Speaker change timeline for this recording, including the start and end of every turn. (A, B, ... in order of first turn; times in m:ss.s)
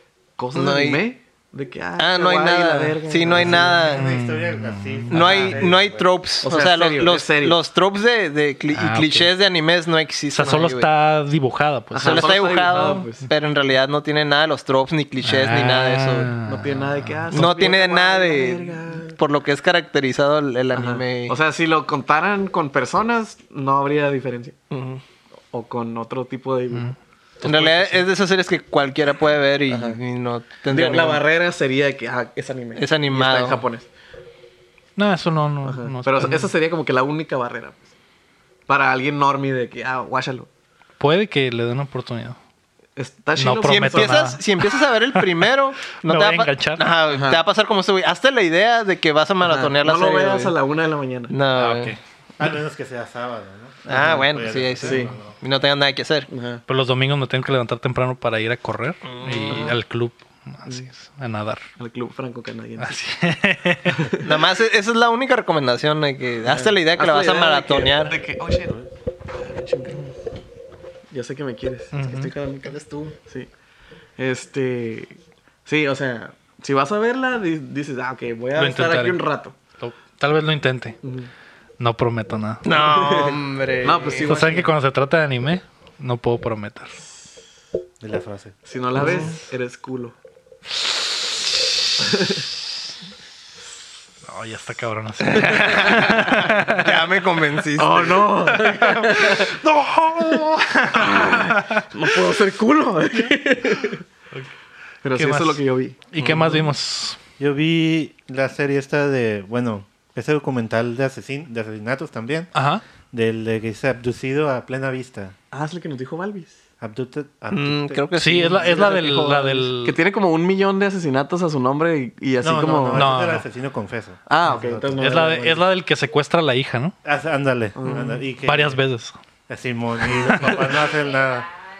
0:00.4-0:03.9 A
0:00.6-0:01.0 B
0:02.0-0:04.1 B
0:03.2-0:06.1 C
0:03.9-0:05.6 D
0:05.1-0:10.9 B
0:06.4-0:07.6 A
0:08.7-0:09.3 D
0:10.3-0:12.3 D
0:11.9-0:13.3 A
0:12.0-0:16.3 B
0:15.2-0:17.5 D
0:16.4-0:19.2 A
0:17.3-0:21.4 B
0:20.7-0:24.6 A
0:24.7-0:25.0 B
0:25.5-0:26.9 A
0:26.7-0:28.0 D
0:27.4-0:31.2 B
0:29.7-0:30.0 A
0:30.7-0:33.9 A
0:32.7-0:33.6 B
0:35.0-0:36.5 D
0:35.6-0:37.9 A
0:38.7-0:40.5 A
0:41.0-0:42.4 D
0:43.0-0:44.2 A
0:43.4-0:46.8 D
0:43.6-0:50.6 B
0:47.1-0:47.4 A
0:49.4-0:51.3 A
0:51.3-0:51.9 B
0:51.5-0:52.0 D
0:52.4-0:55.4 C
0:53.9-0:56.3 B
0:54.8-0:55.2 A
0:56.3-0:56.6 A
0:56.7-1:01.6 D
0:59.0-0:59.8 B
0:59.5-0:59.8 A
1:01.8-1:03.0 A
1:02.8-1:04.1 D
1:03.9-1:04.2 A
1:04.2-1:08.2 B
1:06.4-1:10.1 A
1:11.1-1:13.5 A
1:11.9-1:12.3 D
1:12.6-1:13.2 B
1:14.2-1:19.6 A
1:18.6-1:19.2 D
1:19.8-1:21.0 D
1:21.0-1:21.3 A
1:21.8-1:22.8 D
1:22.6-1:24.3 B
1:22.7-1:24.7 A
1:24.2-1:26.9 D
1:28.0-1:28.6 C
1:28.6-1:30.2 A
1:29.0-1:29.3 B
1:32.0-1:32.4 A
1:34.2-1:37.0 D
1:35.3-1:38.5 B
1:37.8-1:39.6 A
1:38.6-1:41.8 D
1:40.3-1:44.0 A
1:45.0-1:46.6 A
1:45.1-1:47.2 D
1:46.2-1:46.6 B
1:47.4-1:52.5 C
1:52.5-1:52.8 D
1:53.1-1:55.3 C
1:55.5-1:56.6 A
1:56.8-1:58.0 C
1:57.5-1:58.7 B
1:58.2-2:00.0 D
1:58.4-2:03.1 A
2:02.4-2:05.6 C
2:02.9-2:03.4 D
2:04.3-2:05.6 A
2:05.0-2:07.0 D
2:07.0-2:08.8 C
2:07.8-2:08.2 A
2:08.4-2:09.2 D
2:09.5-2:11.5 C
2:10.1-2:10.6 D